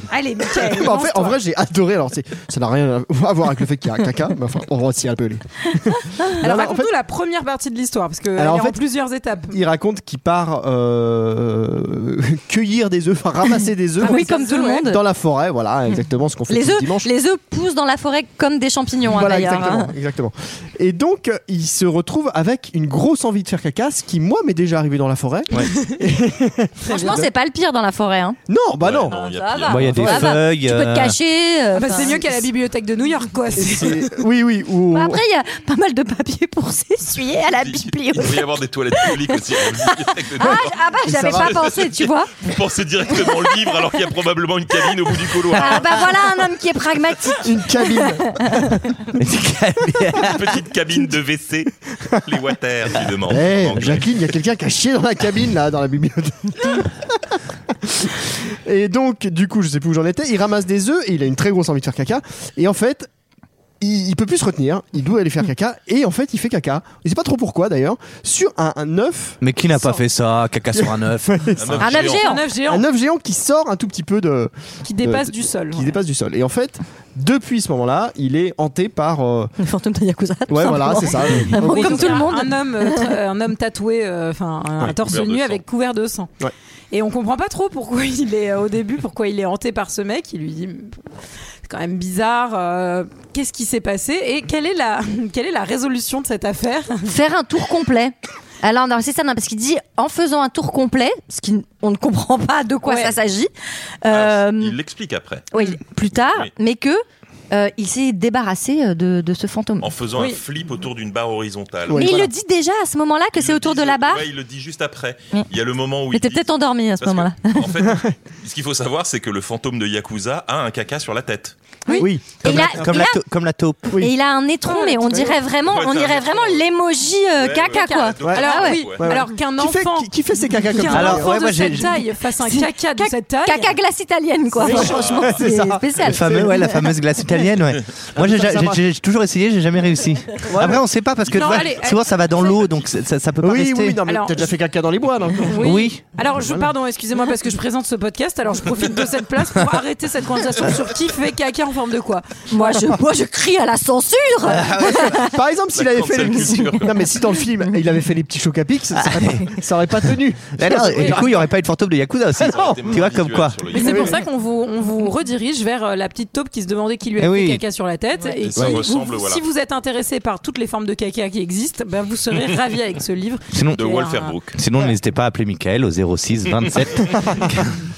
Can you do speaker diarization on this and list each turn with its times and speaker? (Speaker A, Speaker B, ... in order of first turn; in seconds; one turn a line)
Speaker A: 0.1-1.4
Speaker B: 0.5-6.9
Speaker A: 6.4-9.6
Speaker B: 8.4-8.8
Speaker B: 9.5-17.1
Speaker A: 14.0-14.8
Speaker C: 14.0-15.0
Speaker C: 16.5-19.9
Speaker B: 19.1-27.3
Speaker A: 25.6-26.0
Speaker C: 26.9-28.4
Speaker B: 28.5-29.2
Speaker D: 28.8-29.9
Speaker C: 29.1-32.2
Speaker E: 29.7-31.1
Speaker B: 29.9-30.1
Speaker A: 31.7-34.0
Speaker B: 33.6-35.2
Speaker C: 34.9-42.4
Speaker D: 37.6-46.0
Speaker B: 40.4-41.6
Speaker C: 43.1-43.5
Speaker C: 45.5-48.7
Speaker B: 47.4-48.4
Speaker E: 49.1-50.5
Speaker D: 50.2-54.3
Speaker B: 53.3-63.1
Speaker B: 63.8-69.4
Speaker E: 69.4-71.8
Speaker B: 70.8-71.8
Speaker D: 71.6-72.3
Speaker C: 71.8-72.5
Speaker A: 71.9-72.8
Speaker B: 72.6-79.5
Speaker A: 74.8-76.0
Speaker C: 79.6-83.1
Speaker B: 80.5-82.2
Speaker A: 81.4-86.3
Speaker D: 84.8-85.6
Speaker A: 86.9-91.0
Speaker A: 91.7-97.1
Speaker C: 97.0-103.5
Speaker A: 102.8-103.2
Speaker C: 104.0-104.8
Speaker D: 104.1-105.5
Speaker C: 105.5-109.9
Speaker D: 106.1-106.5
Speaker D: 109.8-112.1
Speaker B: 111.9-112.3
Speaker C: 111.9-114.2
Speaker D: 113.3-121.6
Speaker C: 116.1-117.8
Speaker B: 117.8-118.1
Speaker C: 121.8-123.2
Speaker B: 121.9-123.0
Speaker E: 122.4-124.0
Speaker C: 123.9-128.9
Speaker A: 124.6-125.3
Speaker D: 125.7-126.6
Speaker D: 127.3-129.0
Speaker A: 127.7-133.7
Speaker B: 129.0-131.3
Speaker E: 130.9-131.9
Speaker C: 132.4-136.8
Speaker B: 134.6-136.7
Speaker A: 134.6-134.9
Speaker D: 134.8-135.3
Speaker E: 136.0-144.0
Speaker B: 138.1-138.8
Speaker B: 140.5-140.8
Speaker D: 141.3-141.7
Speaker A: 141.3-142.6
Speaker B: 143.4-145.7
Speaker A: 144.1-144.4
Speaker A: 145.5-152.9
Speaker E: 145.6-146.0
Speaker B: 146.3-146.7
Speaker C: 152.5-155.3
Speaker B: 154.5-161.4
Speaker D: 154.8-155.2
Speaker D: 155.7-157.1
Speaker E: 158.9-163.6
Speaker D: 162.4-164.2
Speaker A: 163.7-174.8
Speaker B: 163.8-164.2
Speaker E: 167.2-167.6
Speaker D: 168.4-169.4
Speaker E: 173.5-173.8
Speaker D: 173.7-174.6
Speaker E: 174.5-177.7